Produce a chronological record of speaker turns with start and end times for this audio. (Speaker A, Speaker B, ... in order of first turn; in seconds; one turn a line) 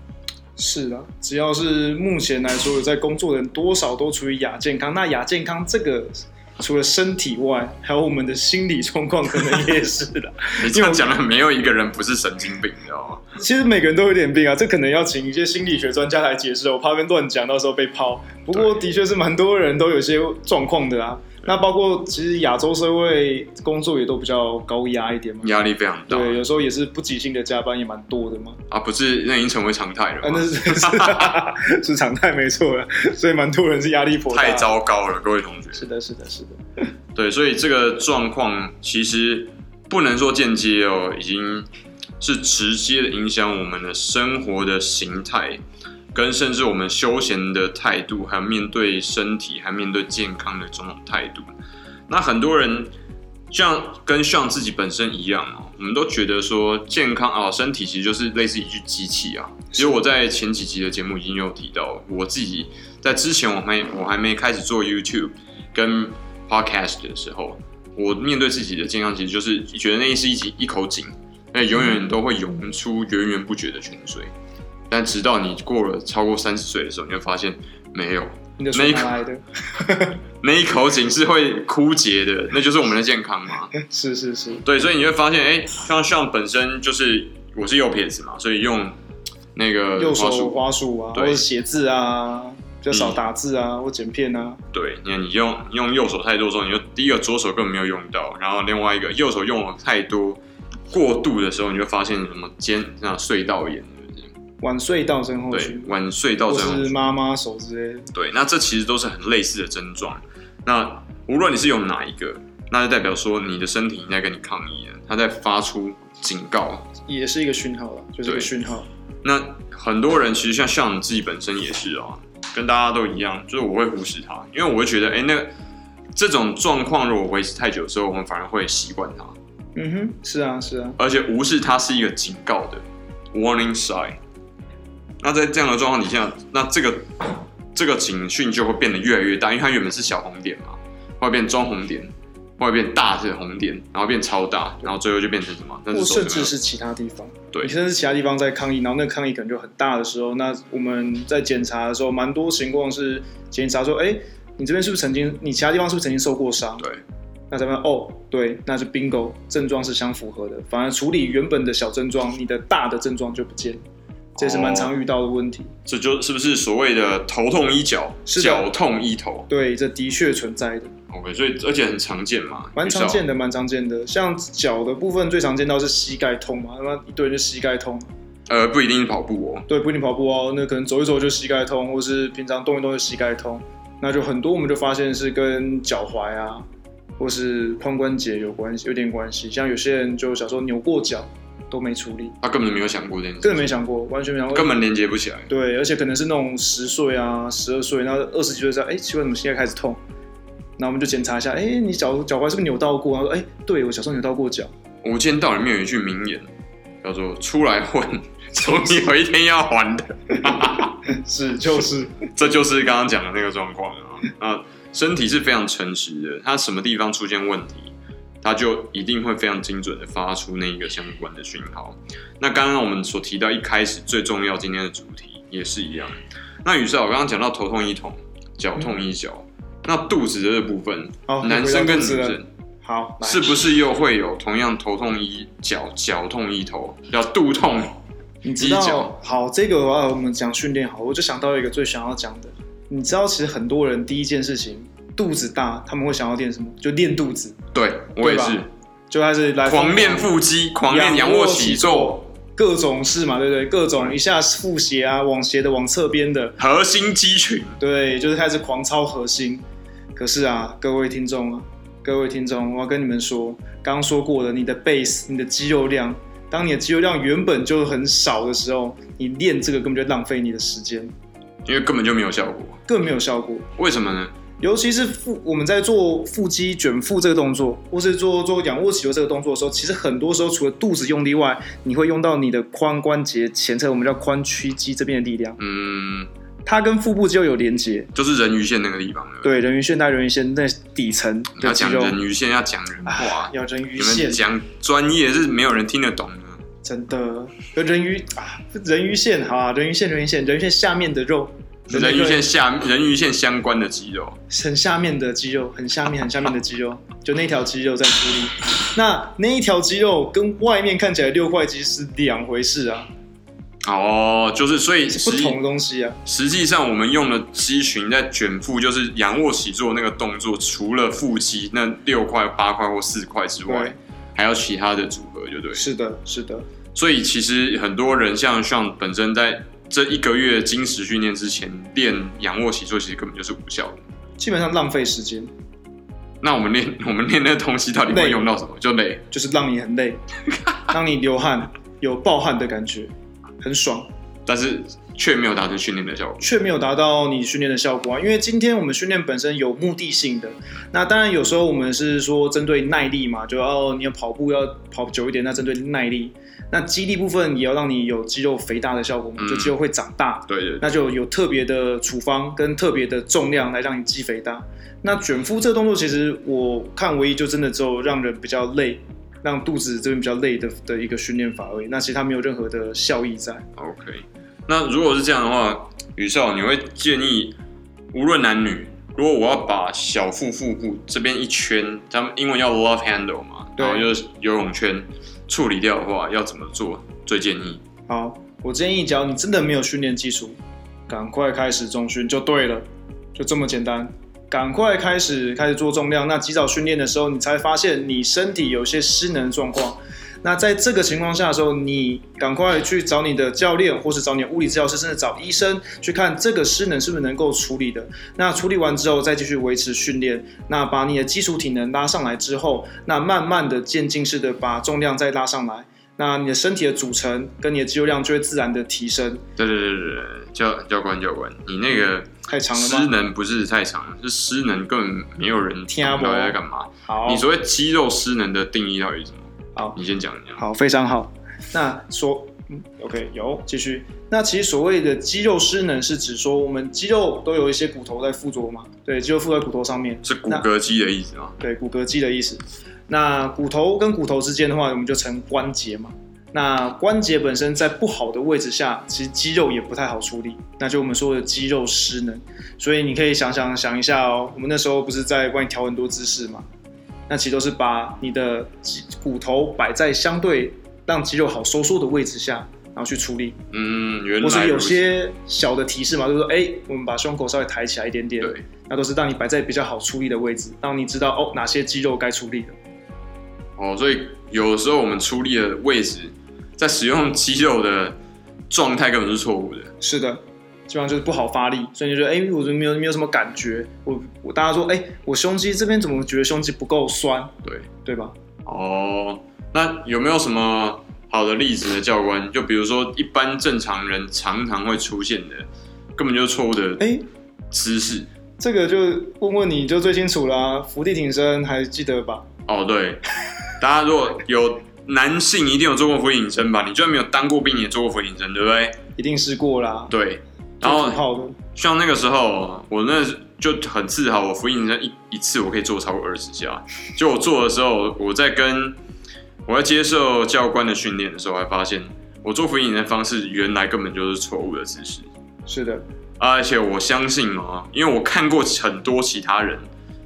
Speaker A: 0.6-11.1
Speaker B: 10.6-13.2
Speaker A: 13.4-25.5
Speaker B: 25.4-26.4
Speaker A: 26.1-28.6
Speaker B: 28.7-31.4
Speaker A: 30.2-34.7
Speaker B: 34.3-35.9
Speaker A: 35.8-36.8
Speaker B: 37.1-41.7
Speaker B: 42.2-45.6
Speaker B: 46.1-51.5
Speaker B: 52.1-52.9
Speaker B: 53.5-74.3
Speaker B: 74.9-79.2
Speaker A: 78.6-80.2
Speaker B: 80.4-83.7
Speaker A: 83.7-84.6
Speaker B: 84.6-89.0
Speaker B: 89.5-90.6
Speaker A: 90.0-94.6
Speaker B: 91.1-91.4
Speaker B: 92.9-93.2
Speaker B: 94.7-104.3
Speaker A: 104.6-105.9
Speaker B: 105.5-106.9
Speaker A: 106.5-108.1
Speaker B: 108.1-116.9
Speaker A: 117.1-118.9
Speaker B: 118.2-118.5
Speaker B: 119.2-125.5
Speaker B: 126.2-129.3
Speaker A: 129.8-131.0
Speaker B: 131.0-134.2
Speaker B: 135.2-146.5
Speaker A: 145.9-156.9
Speaker A: 157.5-163.8
Speaker B: 164.4-164.9
Speaker A: 164.4-165.7
Speaker B: 165.9-169.5
Speaker A: 168.3-168.7
Speaker A: 169.5-170.9
Speaker B: 171.1-173.2
Speaker A: 172.8-178.1
Speaker B: 178.5-179.7
Speaker A: 179.7-186.7
Speaker A: 187.2-192.4
Speaker B: 192.4-193.8
Speaker A: 193.4-194.8
Speaker B: 194.5-195.5
Speaker A: 195.5-200.0
Speaker A: 200.8-204.7
Speaker B: 205.0-206.5
Speaker B: 207.0-211.1
Speaker A: 211.1-212.3
Speaker B: 212.3-232.5
Speaker A: 231.3-233.5
Speaker B: 233.2-238.0
Speaker A: 238.4-247.6
Speaker B: 238.6-239.1
Speaker B: 247.7-248.7
Speaker A: 248.2-250.3
Speaker B: 249.6-252.2
Speaker A: 250.9-256.6
Speaker B: 256.6-257.8
Speaker A: 257.8-259.6
Speaker A: 260.2-271.1
Speaker B: 271.6-272.8
Speaker A: 272.9-273.7
Speaker B: 273.8-274.3
Speaker A: 274.6-285.6
Speaker B: 285.6-286.3
Speaker A: 286.7-288.1
Speaker B: 288.1-289.5
Speaker A: 289.4-292.2
Speaker B: 291.6-296.6
Speaker A: 293.1-294.4
Speaker A: 296.8-302.4
Speaker B: 301.9-304.4
Speaker A: 304.5-313.1
Speaker B: 313.9-315.6
Speaker A: 315.1-316.2
Speaker B: 316.2-325.8
Speaker A: 323.7-324.0
Speaker A: 325.8-326.7
Speaker B: 326.9-334.0
Speaker A: 334.4-335.5
Speaker B: 336.4-339.2
Speaker A: 338.1-338.4
Speaker A: 339.3-340.2
Speaker A: 340.9-344.1
Speaker B: 344.5-346.5
Speaker A: 346.4-373.7
Speaker B: 359.4-359.8
Speaker B: 360.5-360.9
Speaker B: 373.8-377.6
Speaker B: 378.1-387.8
Speaker A: 383.8-384.1
Speaker A: 388.1-390.6
Speaker A: 391.1-392.9
Speaker A: 393.4-419.4
Speaker B: 419.6-430.6
Speaker A: 422.5-423.1
Speaker A: 425.9-427.5
Speaker A: 430.6-440.7
Speaker B: 440.2-441.6
Speaker A: 441.6-456.6
Speaker A: 457.3-463.6
Speaker B: 463.7-465.1
Speaker A: 464.4-472.8
Speaker B: 473.8-478.2
Speaker B: 478.7-479.9
Speaker A: 480.0-488.3
Speaker B: 488.7-497.1
Speaker A: 497.0-497.2
Speaker B: 497.7-498.3
Speaker A: 498.6-502.5
Speaker B: 502.7-503.2
Speaker B: 503.8-509.0
Speaker A: 509.2-510.1
Speaker B: 510.1-511.2
Speaker A: 510.8-511.6
Speaker B: 511.8-519.0
Speaker B: 519.7-525.3
Speaker A: 525.7-526.0
Speaker B: 526.4-529.9